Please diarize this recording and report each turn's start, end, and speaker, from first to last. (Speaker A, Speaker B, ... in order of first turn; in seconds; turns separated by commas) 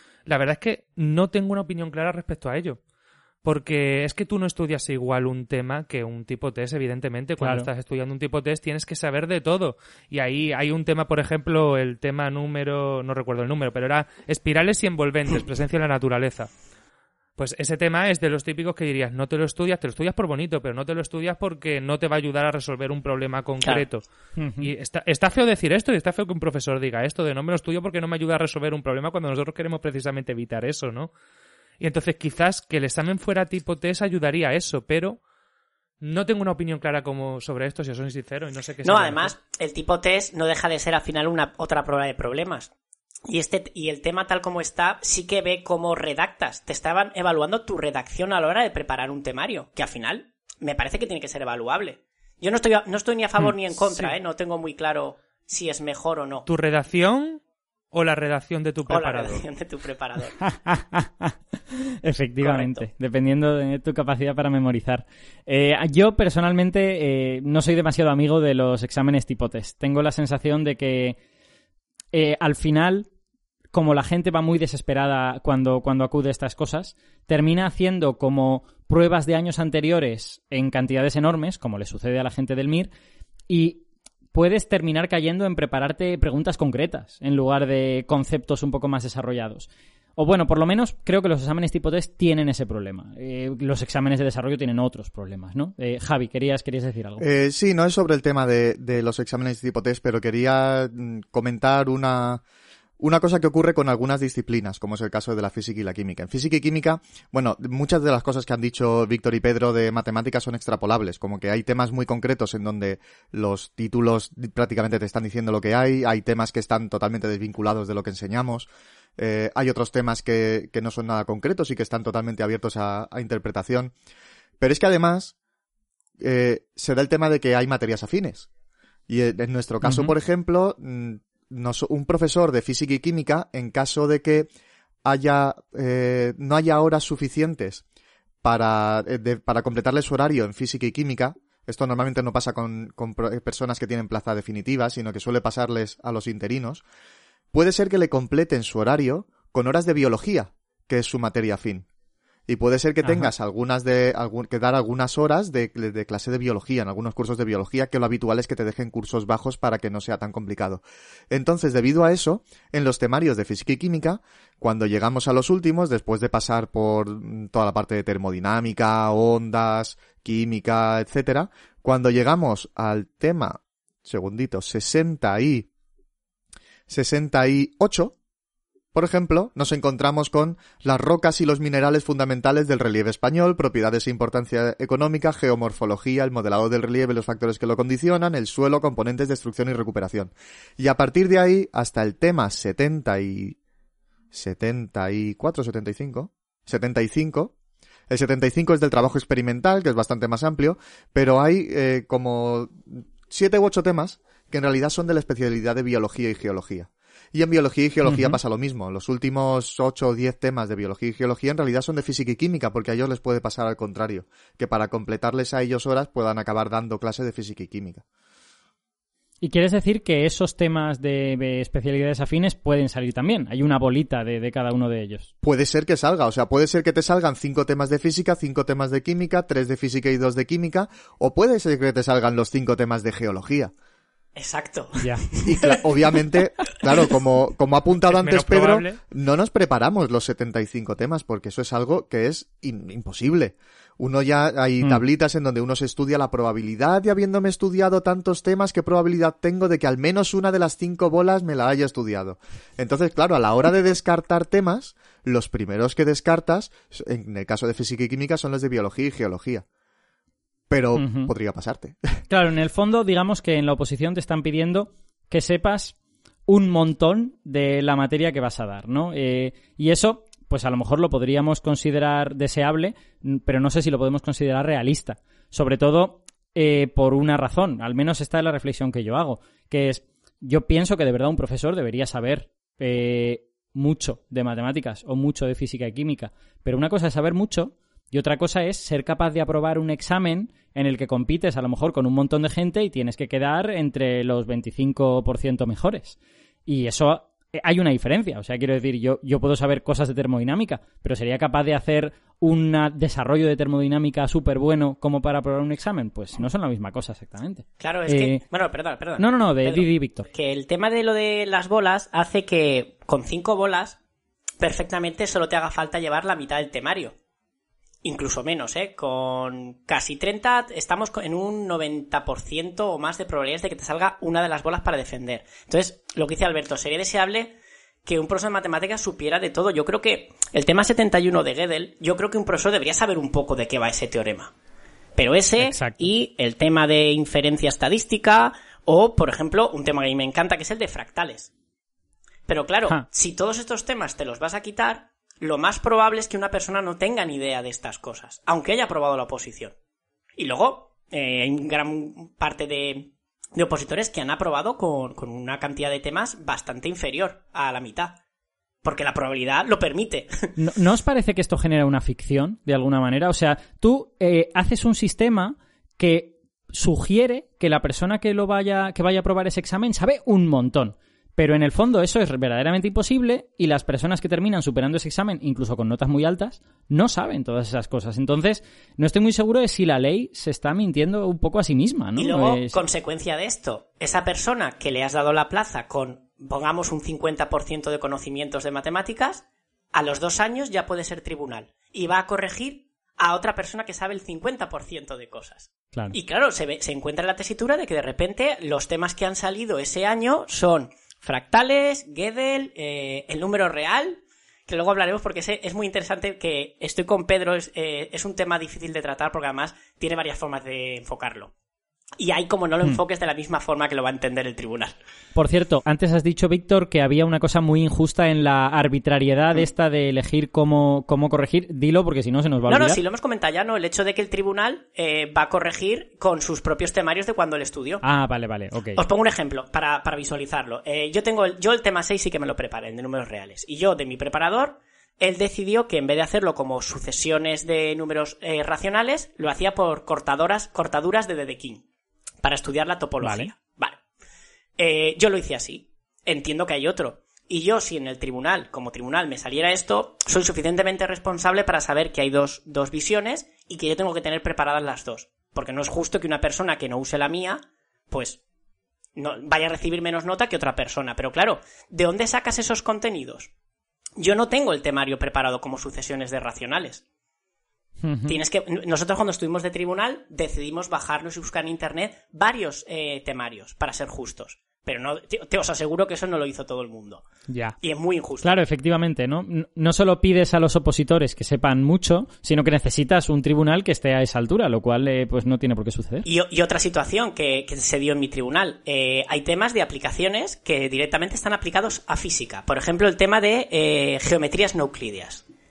Speaker A: 0.3-2.8, Speaker A: 3.4-16.5, Speaker B: 7.4-7.7, Speaker A: 17.4-24.0, Speaker B: 24.4-24.7, Speaker A: 24.6-31.1, Speaker A: 31.8-35.2, Speaker A: 36.0-39.3, Speaker C: 38.8-42.7, Speaker C: 43.3-56.5, Speaker A: 56.5-57.4, Speaker A: 57.9-59.5, Speaker C: 58.9-60.4, Speaker B: 60.4-61.4, Speaker B: 61.9-71.2, Speaker C: 62.4-62.9, Speaker B: 72.1-73.1, Speaker B: 73.7-82.9, Speaker B: 83.5-97.3, Speaker D: 97.2-102.4, Speaker D: 103.0-123.9, Speaker D: 124.6-125.3, Speaker D: 126.2-128.5, Speaker D: 129.1-134.5, Speaker B: 129.8-130.1, Speaker D: 135.0-137.8, Speaker D: 138.4-146.8, Speaker D: 147.5-151.9, Speaker D: 152.5-175.7, Speaker B: 153.0-153.3, Speaker D: 176.9-178.2, Speaker D: 178.9-193.6, Speaker D: 194.3-197.5, Speaker D: 198.1-218.0, Speaker B: 208.1-208.4, Speaker B: 219.4-225.3, Speaker D: 225.4-233.7, Speaker C: 234.3-235.9, Speaker B: 235.0-235.2, Speaker D: 235.4-259.7, Speaker A: 238.1-239.0, Speaker D: 260.7-262.2, Speaker B: 261.0-261.3, Speaker B: 262.3-266.0, Speaker B: 266.5-308.4, Speaker C: 307.8-314.0, Speaker B: 309.2-310.3, Speaker C: 314.6-317.1, Speaker C: 318.0-334.5, Speaker C: 335.2-341.5, Speaker B: 335.6-336.1, Speaker C: 342.5-349.8, Speaker C: 350.4-358.2, Speaker C: 358.8-360.6, Speaker B: 360.6-382.8, Speaker C: 382.2-411.5, Speaker C: 412.2-414.9, Speaker B: 415.4-423.0, Speaker C: 422.7-428.0, Speaker B: 428.0-429.0, Speaker C: 428.9-441.8, Speaker C: 442.4-444.0, Speaker B: 443.2-443.5, Speaker C: 444.8-458.4, Speaker C: 459.2-463.5, Speaker C: 464.2-467.0, Speaker B: 468.0-468.4, Speaker C: 468.3-477.3, Speaker B: 477.5-477.8, Speaker C: 477.8-478.5, Speaker B: 478.4-486.3, Speaker C: 486.2-495.4